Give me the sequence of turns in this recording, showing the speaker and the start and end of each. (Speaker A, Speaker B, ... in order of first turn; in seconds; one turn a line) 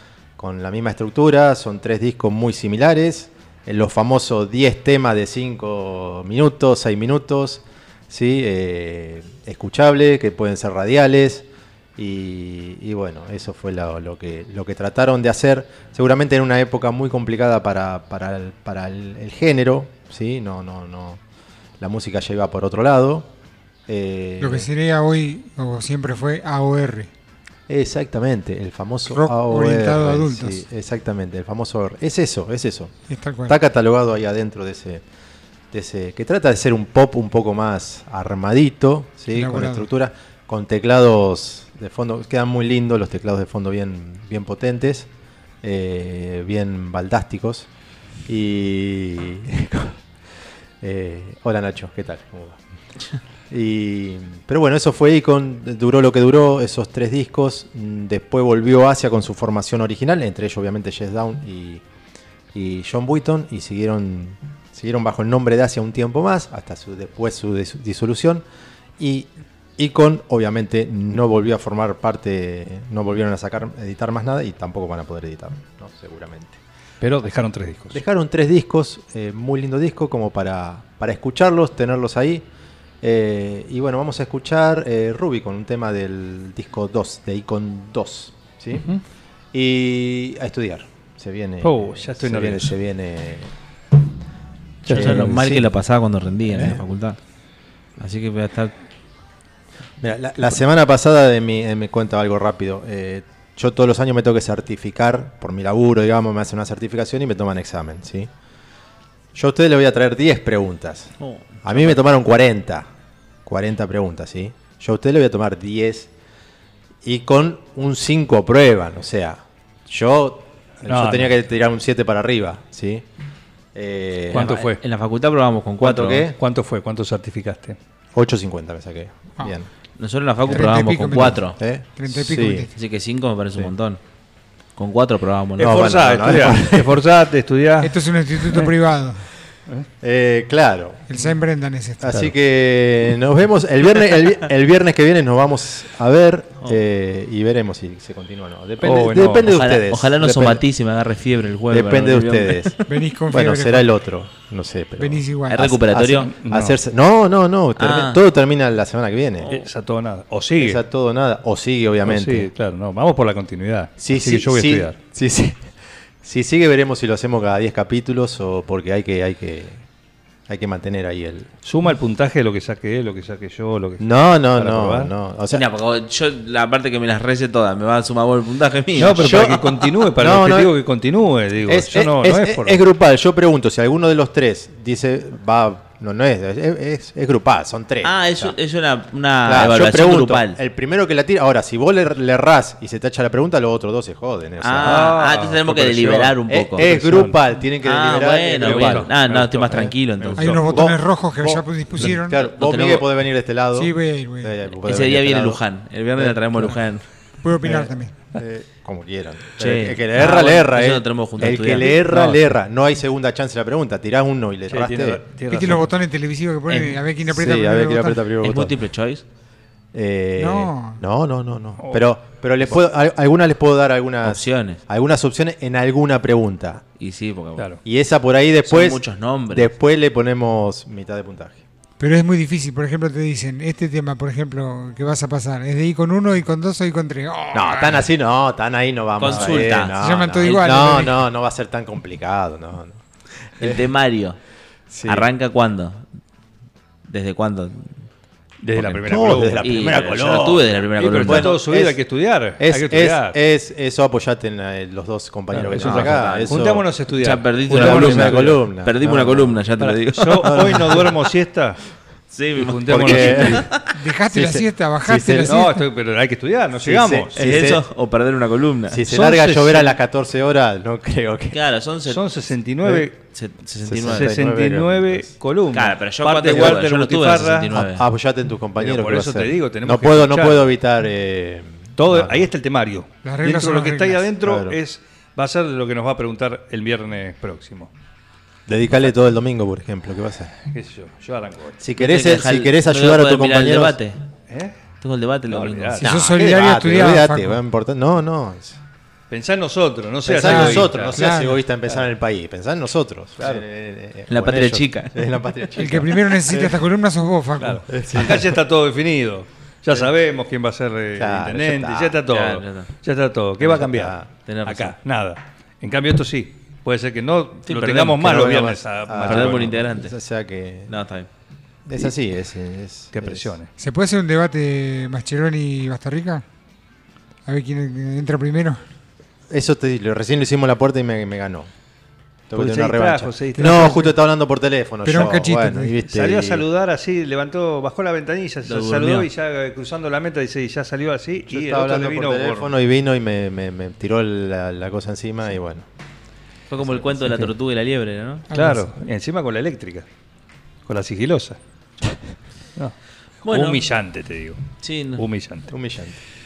Speaker A: 0.4-21.2
Speaker A: 21.8-23.3
Speaker A: 23.9-24.7
Speaker B: 24.4-27.1
Speaker A: 27.7-32.9
Speaker B: 29.1-30.6
Speaker B: 33.1-33.6
Speaker A: 33.5-35.0
Speaker A: 35.7-45.1
Speaker B: 39.3-39.9
Speaker A: 45.6-47.7
Speaker A: 48.2-50.0
Speaker A: 50.8-52.6
Speaker A: 53.5-61.8
Speaker A: 62.5-68.4
Speaker A: 69.0-76.6
Speaker C: 77.0-78.0
Speaker A: 77.9-82.5
Speaker A: 83.0-88.9
Speaker A: 89.5-93.5
Speaker C: 91.6-92.7
Speaker A: 94.8-95.7
Speaker C: 94.8-95.5
Speaker D: 94.9-97.2
Speaker A: 96.5-96.8
Speaker D: 98.0-98.7
Speaker A: 100.0-108.3
Speaker A: 109.3-111.1
Speaker D: 111.2-112.0
Speaker A: 111.6-112.9
Speaker A: 113.4-116.1
Speaker A: 117.0-123.0
Speaker C: 120.9-121.4
Speaker A: 123.7-124.5
Speaker D: 124.3-126.2
Speaker C: 124.3-124.8
Speaker A: 125.8-126.4
Speaker C: 126.2-127.8
Speaker A: 128.1-129.7
Speaker D: 130.0-131.6
Speaker A: 130.5-132.7
Speaker B: 130.5-132.7
Speaker D: 132.7-134.0
Speaker D: 134.8-135.9
Speaker A: 135.6-137.0
Speaker C: 135.6-138.7
Speaker B: 137.8-139.3
Speaker A: 140.0-141.1
Speaker B: 141.1-142.2
Speaker A: 142.0-150.6
Speaker C: 148.8-149.5
Speaker D: 149.5-152.8
Speaker A: 151.7-159.5
Speaker B: 152.9-153.9
Speaker B: 155.0-155.6
Speaker D: 155.5-156.3
Speaker C: 156.3-156.8
Speaker D: 157.8-158.2
Speaker D: 159.4-159.7
Speaker C: 159.4-160.8
Speaker A: 160.6-162.5
Speaker C: 162.0-164.9
Speaker A: 164.0-165.7
Speaker A: 166.2-169.8
Speaker A: 170.5-171.5
Speaker C: 171.6-175.1
Speaker A: 174.0-175.6
Speaker D: 175.5-179.9
Speaker C: 179.0-182.8
Speaker A: 179.2-180.7
Speaker A: 181.7-188.6
Speaker D: 188.0-190.6
Speaker A: 189.4-195.2
Speaker D: 194.6-197.2
Speaker C: 194.8-197.3
Speaker A: 196.5-199.1
Speaker D: 197.8-200.6
Speaker C: 198.6-200.7
Speaker A: 199.7-199.9
Speaker B: 200.4-202.4
Speaker A: 200.7-205.6
Speaker D: 202.4-203.1
Speaker B: 203.7-204.5
Speaker D: 204.8-207.0
Speaker A: 206.2-206.8
Speaker B: 207.4-208.1
Speaker A: 207.6-215.2
Speaker D: 209.6-212.0
Speaker C: 212.1-212.4
Speaker C: 214.7-215.9
Speaker B: 215.5-218.2
Speaker D: 216.7-216.9
Speaker A: 217.2-218.8
Speaker D: 218.4-219.2
Speaker A: 219.9-226.8
Speaker B: 220.4-221.0
Speaker C: 221.8-222.0
Speaker D: 224.2-224.8
Speaker D: 227.0-227.7
Speaker A: 227.8-231.6
Speaker D: 228.6-229.7
Speaker B: 232.0-238.1
Speaker A: 237.5-243.0
Speaker D: 239.2-240.6
Speaker B: 239.9-241.2
Speaker A: 243.6-243.9
Speaker D: 243.6-244.4
Speaker A: 244.9-245.3
Speaker D: 245.0-246.0
Speaker D: 247.1-248.0
Speaker C: 248.6-253.4
Speaker D: 248.8-251.6
Speaker A: 249.0-250.6
Speaker A: 251.2-252.0
Speaker A: 252.6-256.8
Speaker C: 255.5-258.6
Speaker D: 255.8-261.0
Speaker A: 257.7-259.6
Speaker C: 259.8-261.8
Speaker A: 260.4-261.1
Speaker D: 262.3-263.9
Speaker C: 262.6-263.7
Speaker A: 262.9-263.7
Speaker B: 263.9-265.8
Speaker A: 264.3-265.7
Speaker C: 265.4-267.4
Speaker A: 266.8-267.8
Speaker D: 267.3-269.0
Speaker A: 268.9-271.6
Speaker C: 269.1-270.0
Speaker D: 271.5-272.4
Speaker C: 272.1-273.1
Speaker D: 273.3-274.4
Speaker A: 273.8-275.3
Speaker C: 274.1-277.7
Speaker D: 275.7-278.1
Speaker A: 277.7-282.5
Speaker C: 278.8-280.7
Speaker C: 282.0-287.9
Speaker B: 283.2-284.3
Speaker A: 284.4-284.8
Speaker A: 288.7-290.5
Speaker C: 290.7-291.8
Speaker A: 291.8-294.0
Speaker D: 292.0-294.2
Speaker C: 294.5-294.7
Speaker D: 295.0-296.0
Speaker C: 295.5-296.1
Speaker B: 296.0-297.6
Speaker A: 296.0-298.8
Speaker C: 299.3-301.2
Speaker A: 300.2-306.8
Speaker B: 300.4-301.6
Speaker C: 303.4-303.6
Speaker D: 304.3-305.2
Speaker B: 305.8-307.9
Speaker C: 307.6-319.7
Speaker A: 307.9-308.6
Speaker A: 311.1-312.2
Speaker D: 312.3-312.9
Speaker A: 313.6-314.3
Speaker D: 314.4-314.9
Speaker D: 317.7-318.4
Speaker A: 317.9-320.9
Speaker D: 319.2-320.1
Speaker D: 320.9-321.3
Speaker A: 321.9-323.5
Speaker C: 323.1-323.7
Speaker B: 323.8-326.4
Speaker B: 327.4-328.8
Speaker A: 329.5-331.7
Speaker A: 332.5-336.6
Speaker C: 332.5-334.1
Speaker B: 333.6-334.1
Speaker B: 335.0-335.9
Speaker C: 336.1-342.7
Speaker D: 338.6-339.3
Speaker A: 341.5-345.9
Speaker D: 346.7-348.5
Speaker B: 348.5-348.9
Speaker C: 348.5-350.1
Speaker C: 350.9-351.6
Speaker D: 353.4-353.8
Speaker C: 353.5-354.6
Speaker D: 354.8-355.2
Speaker C: 355.1-355.7
Speaker A: 355.7-356.2